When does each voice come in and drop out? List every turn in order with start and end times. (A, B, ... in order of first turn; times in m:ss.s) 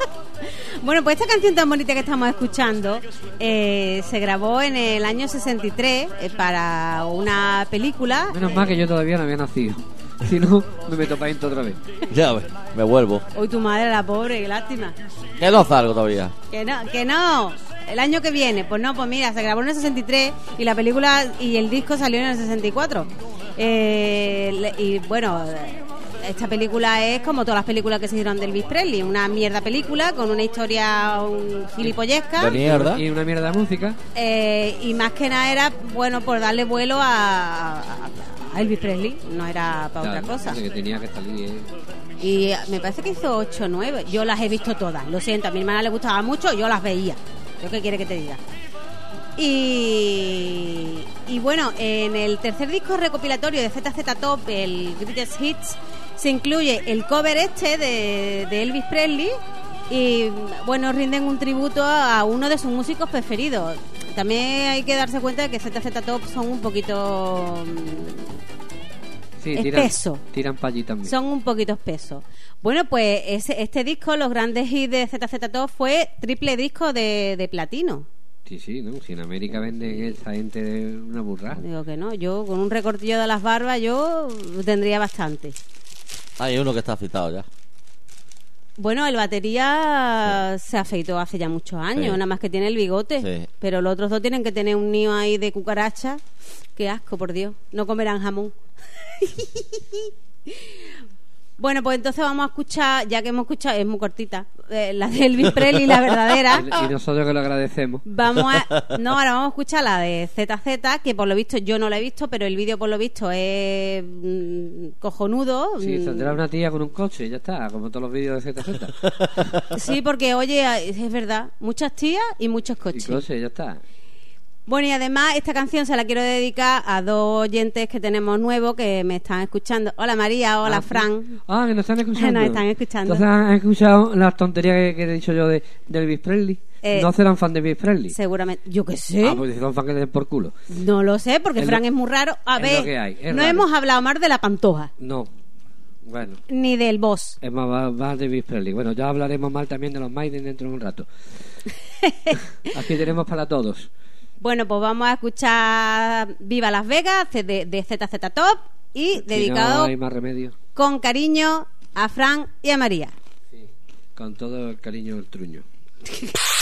0:00.8-0:08.4 A
0:08.3-0:11.8 B
0:12.1-0:13.3 C
0:13.4-0:15.0 A
0:15.4-0:16.4 C
0:16.5-0:32.6 A
0:32.4-0:33.0 C
0:32.4-0:34.0 B
0:34.2-0:40.6 A
0:40.0-0:41.7 B
0:42.2-0:48.4 A
0:49.4-0:59.4 A
0:59.9-1:08.4 A
1:09.4-1:11.1 B
1:09.6-1:10.2 A
1:11.0-1:18.1 A
1:18.5-1:21.6 B
1:21.6-1:25.6 A
1:26.4-1:27.5 C
1:28.8-1:36.2 A
1:32.0-1:32.2 C
1:33.2-1:33.5 C
1:36.8-1:40.8 A
1:41.6-1:46.7 A
1:46.5-1:48.0 B
1:48.1-1:56.4 A
1:48.4-1:49.0 C
1:55.8-1:59.0 B
1:59.2-1:59.6 C
1:59.7-2:03.2 A
2:02.9-2:03.8 B
2:04.7-2:11.4 A
2:10.6-2:18.2 B
2:12.2-2:13.2 A
2:16.8-2:17.1 A
2:18.1-2:19.4 A
2:19.2-2:20.5 B
2:20.7-2:24.9 A
2:21.6-2:21.8 B
2:22.6-2:23.7 B
2:25.0-2:25.3 B
2:26.1-2:26.4 B
2:26.5-2:27.4 A
2:27.4-2:31.1 B
2:32.0-2:32.4 A
2:32.7-2:33.9 B
2:34.4-2:39.9 A
2:39.2-2:40.5 B
2:40.8-2:43.1 A
2:44.2-2:45.6 B